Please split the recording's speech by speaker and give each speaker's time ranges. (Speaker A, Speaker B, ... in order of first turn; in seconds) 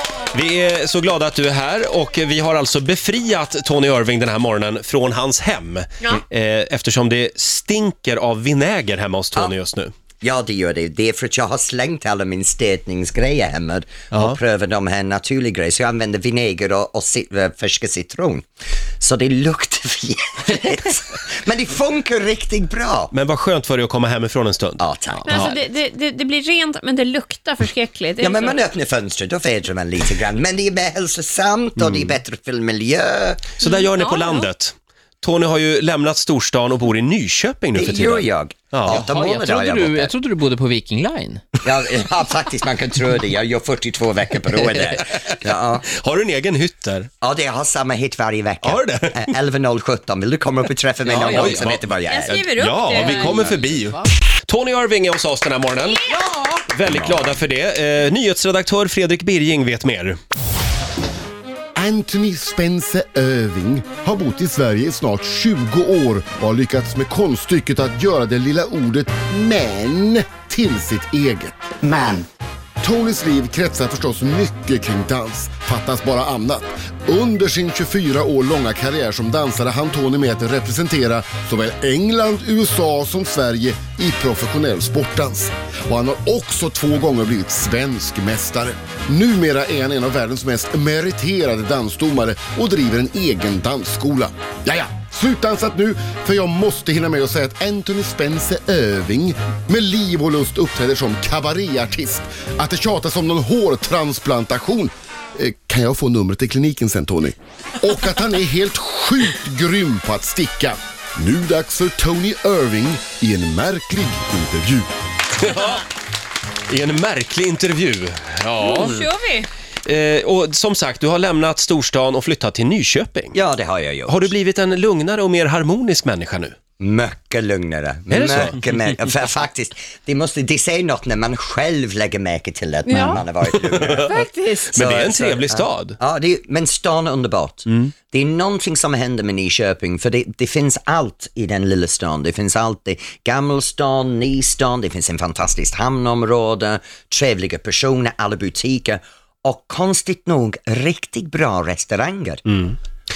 Speaker A: 0.3-9.9, 14.1-14.4, 23.1-24.8, 31.8-32.1, 33.6-39.0, 45.9-47.1, 48.6-49.3, 51.2-56.0, 56.7-60.2, 115.4-115.8, 116.7-119.0, 119.8-123.4, 124.1-126.5, 128.1-128.6, 132.9-136.0, 152.5-152.8
Speaker B: 10.2-18.5, 19.0-23.1, 24.8-25.4, 28.2-33.5, 37.8-40.1, 41.6-45.9, 47.2-52.4, 56.8-57.4, 123.3-124.3, 126.8-134.1, 134.8-152.4
Speaker C: 25.3-28.6, 33.6-34.5, 52.1-53.5, 55.8-56.2, 118.6-119.5, 132.9-133.2, 134.1-134.7
Speaker D: 38.9-41.4, 51.0-51.8, 52.9-54.1, 56.1-56.7
Speaker E: 61.8-72.2, 72.8-114.9